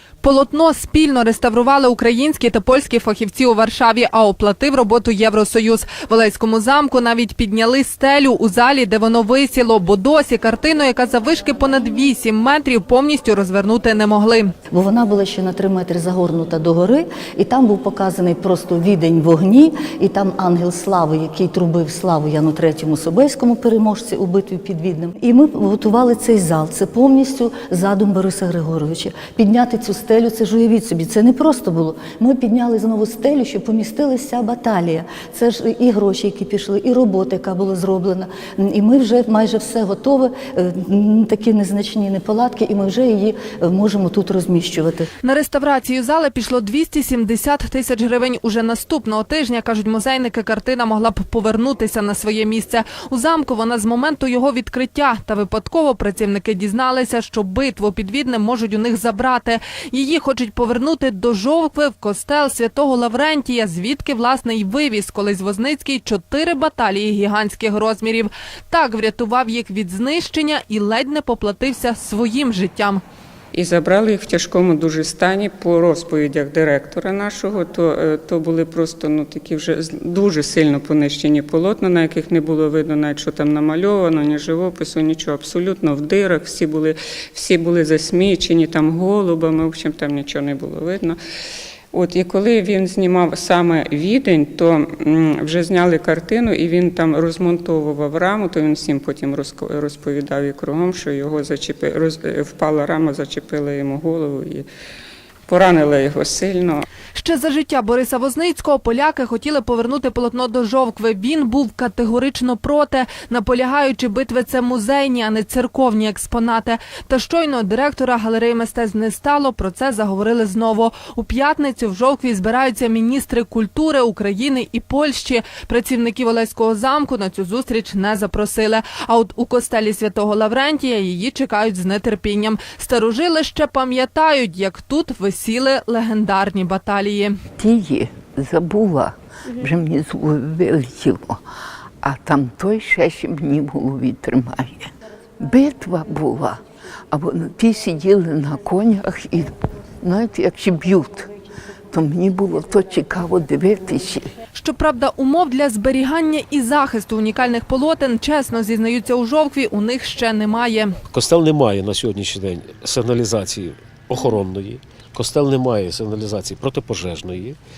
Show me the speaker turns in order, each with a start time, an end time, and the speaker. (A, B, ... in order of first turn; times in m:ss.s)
0:00.2-0:14.5 A
0:14.7-0:45.1 B
0:45.2-1:13.0 A
1:13.5-1:31.2 C
1:31.9-1:44.7 C
1:45.5-1:46.9 C
1:47.1-2:17.4 A
2:17.6-2:21.4 D
2:22.0-2:26.6 D
2:27.1-2:31.3 D
2:31.9-2:34.3 D
2:34.5-2:41.0 A
2:41.1-2:47.6 E